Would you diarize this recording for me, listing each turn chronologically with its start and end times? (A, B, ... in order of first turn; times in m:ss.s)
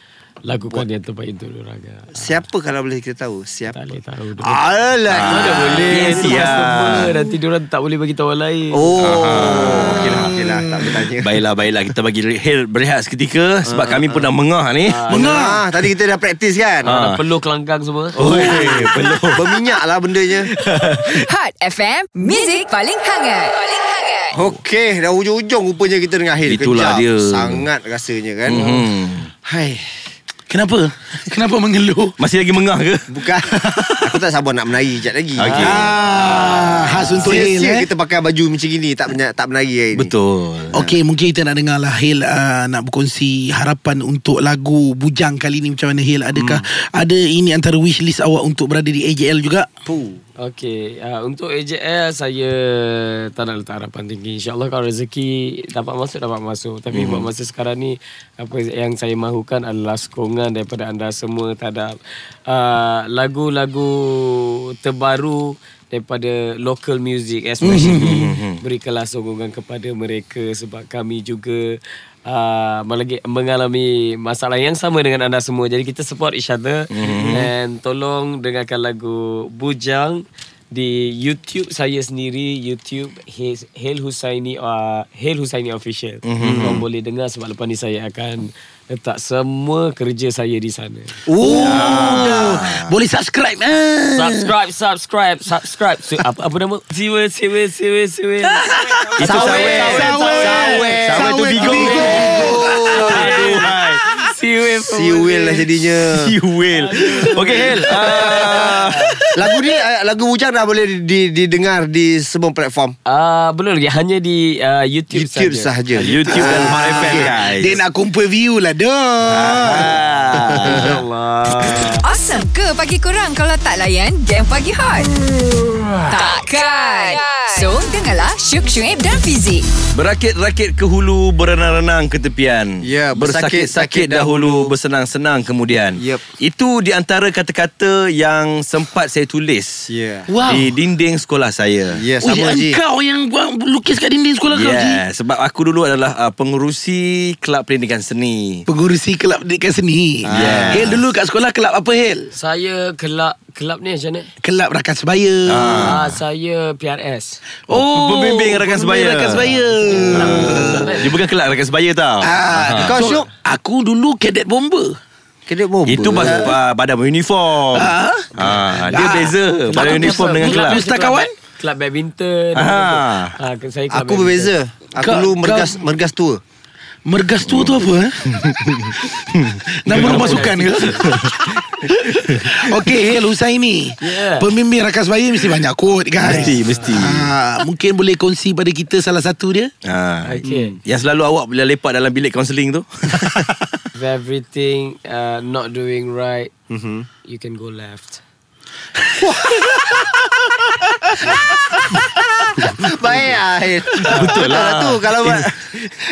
0:00.4-0:02.4 A
0:02.2-0:03.8 B
0:03.7-0:04.6 A
0:04.4-0:07.1 B
0:05.1-0:07.1 C
0:05.2-0:08.9 A
0:08.7-0:11.4 B
0:09.0-0:15.0 C
0:13.7-0:14.2 B
0:14.8-0:15.5 A
0:15.1-0:15.6 D
0:15.1-0:16.9 B
0:16.8-0:18.2 A
0:16.8-0:17.2 C
0:18.1-0:20.5 B
0:18.2-0:19.8 C
0:20.4-0:21.3 C
0:21.1-0:24.4 E
0:24.3-0:28.6 B
0:26.4-0:27.6 C
0:28.4-0:29.3 C
0:28.5-0:28.8 A
0:29.4-0:29.8 B
0:30.5-0:32.1 D
0:32.2-0:34.2 C
0:33.1-0:33.5 B
0:34.0-0:40.1 B
0:35.4-0:35.9 C
0:35.4-0:36.8 A
0:35.6-0:37.9 D
0:39.9-0:40.8 C
0:40.7-0:49.7 D
0:46.3-0:46.6 B
0:49.8-0:50.2 B
0:50.4-1:31.2 A
0:56.9-0:57.2 C
1:07.6-1:08.3 D
1:07.7-1:08.6 C
1:16.9-1:17.5 C
1:17.0-1:17.4 B
1:26.2-1:26.8 C
1:26.4-1:26.8 B
1:31.2-1:32.6 B
1:31.4-1:34.5 D
1:31.6-1:32.9 C
1:34.1-1:45.7 A
1:38.5-1:42.9 D
1:39.2-1:44.0 C
1:39.2-1:41.0 B
1:41.6-1:43.2 B
1:44.9-1:46.3 B
1:46.1-1:49.2 C
1:46.8-1:49.2 A
1:49.3-1:52.9 B
1:53.1-1:57.0 A
1:55.1-1:57.3 B
1:56.0-1:57.8 C
1:56.7-1:59.9 D
1:59.3-2:01.0 C
1:59.8-2:02.0 A
2:02.0-2:05.1 E
2:06.1-2:09.7 E
2:09.9-2:19.9 C
2:12.8-2:14.7 B
2:16.0-2:16.2 B
2:19.9-2:20.3 B
2:20.3-2:20.7 D
2:20.4-2:22.0 C
2:22.0-2:22.8 B
2:22.2-2:25.0 D
2:24.5-2:28.6 C
2:28.7-2:32.3 D
2:30.2-2:30.9 B
2:30.3-2:31.0 C
2:32.3-2:34.3 A
2:34.4-2:36.0 D
2:35.5-2:36.1 C
2:35.7-2:37.4 A
2:37.7-2:41.0 D
2:37.7-2:39.5 C
2:39.6-2:41.2 A
2:40.1-2:43.0 C
2:42.2-2:45.0 D
2:42.7-2:43.3 B
2:45.5-2:46.5 B
2:45.8-2:50.8 C
2:47.7-2:48.4 D
2:48.9-2:51.3 D
2:49.7-2:54.5 A
2:52.5-2:53.3 C
2:53.9-2:56.4 B
2:55.0-2:55.8 D
2:57.0-2:58.4 D
2:57.4-2:58.9 C
2:59.5-3:01.3 C
2:59.8-3:09.7 D
2:59.9-3:01.3 A
3:04.0-3:04.5 A
3:06.2-3:07.3 C
3:06.2-3:07.0 A
3:09.8-3:13.8 C
3:10.2-3:10.8 A
3:10.4-3:10.8 B
3:13.9-3:16.5 A
3:16.7-3:17.0 B
3:17.2-3:18.2 A
3:19.1-3:20.2 B
3:21.3-3:25.5 B
3:24.0-3:25.7 C
3:24.1-3:24.3 A